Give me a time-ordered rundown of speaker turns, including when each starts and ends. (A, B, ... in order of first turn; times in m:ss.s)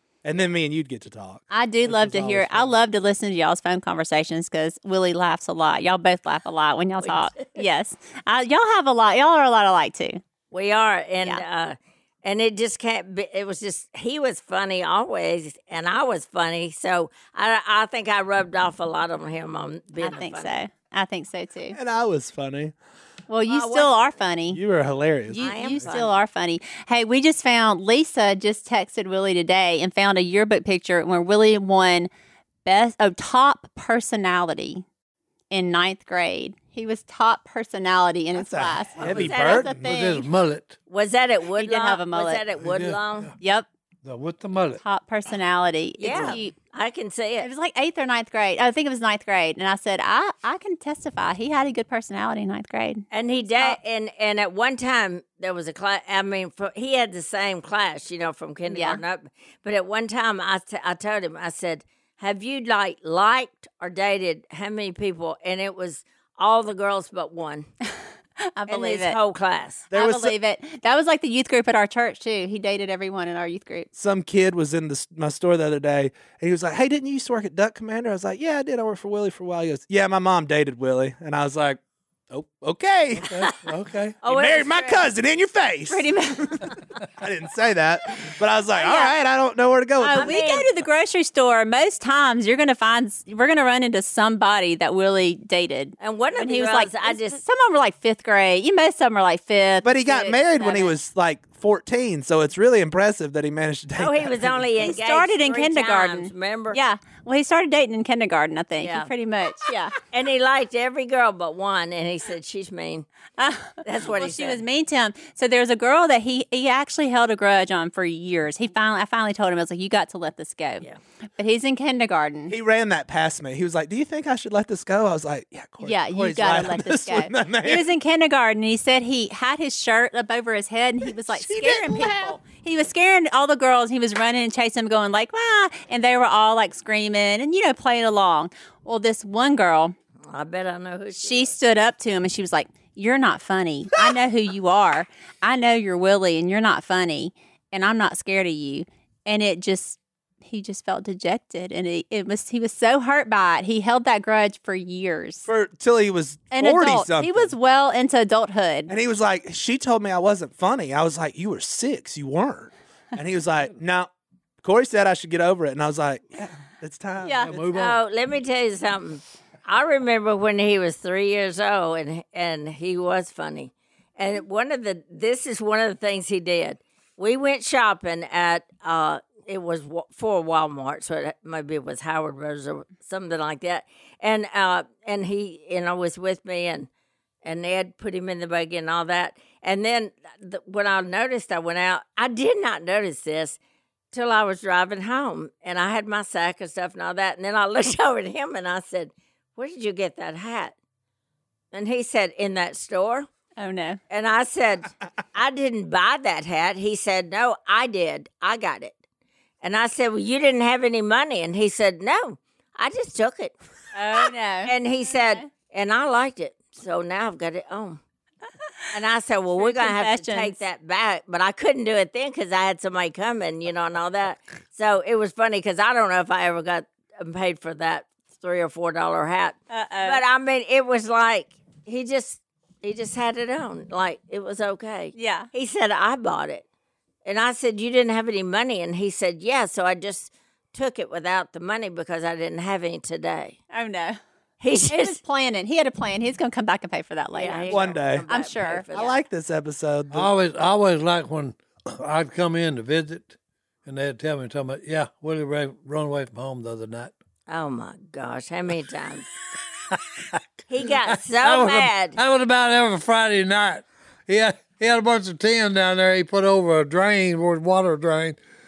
0:00.2-0:01.4 A
0:01.5-0:10.2 B
0:01.8-0:02.8 C
0:07.0-0:07.6 D
0:10.5-0:20.5 D
0:20.0-0:21.8 B
0:21.7-0:22.7 A
0:23.3-0:24.6 B
0:23.5-0:23.9 D
0:24.5-0:25.9 A
0:25.3-0:32.1 B
0:25.4-0:26.2 D
0:32.6-0:34.8 B
0:35.5-0:40.2 B
0:38.3-0:39.8 A
0:39.0-0:39.6 D
0:39.0-0:40.8 C
0:40.9-0:43.3 D
0:41.6-0:42.4 B
0:42.6-0:43.3 C
0:43.4-0:43.7 B
0:44.0-0:44.8 C
0:44.8-0:46.5 B
0:46.0-0:47.5 D
0:46.1-0:46.4 A
0:47.4-0:53.8 B
0:53.1-1:07.7 D
0:58.6-0:59.0 B
1:08.4-1:09.2 B
1:08.7-1:09.8 D
1:09.9-1:10.3 A
1:09.9-1:13.9 B
1:14.0-1:23.4 A
1:23.2-1:24.2 C
1:24.2-1:25.1 D
1:24.2-1:30.4 A
1:25.9-1:26.7 B
1:28.8-1:29.1 B
1:30.0-1:40.9 B
1:30.1-1:30.7 D
1:36.0-1:37.4 D
1:39.8-1:44.6 A
1:44.0-1:46.8 D
1:44.8-1:49.9 B
1:48.8-1:49.1 D
1:50.0-1:53.0 D
1:53.4-2:00.8 B
1:53.8-1:54.6 D
2:01.4-2:02.5 B
2:02.5-2:07.9 A
2:05.8-2:19.9 B
2:11.2-2:12.4 A
2:20.2-2:21.5 D
2:21.1-2:35.5 B
2:35.5-2:37.5 A
2:36.5-2:38.9 B
2:38.9-2:44.1 A
2:44.6-2:47.6 A
2:47.2-2:47.5 B
2:47.4-2:48.0 C
2:47.7-3:06.9 D
3:07.4-3:13.6 D
3:14.1-3:20.7 D
3:21.7-3:23.3 D
3:23.6-3:24.0 B
3:24.1-3:28.9 D
3:29.6-3:33.5 D
3:33.9-3:35.5 B
3:34.2-3:38.0 D
3:38.9-3:56.6 D
3:39.6-3:40.6 B
3:49.7-3:50.2 B
3:55.1-3:55.5 B
3:57.2-4:03.6 D
4:03.7-4:04.2 B
4:04.6-4:05.2 D
4:04.9-4:08.9 B
4:07.3-4:09.2 D
4:07.7-4:08.3 A
4:08.9-4:10.3 A
4:10.1-4:17.1 C
4:17.5-4:19.3 D
4:19.9-4:28.4 C
4:20.7-4:22.2 D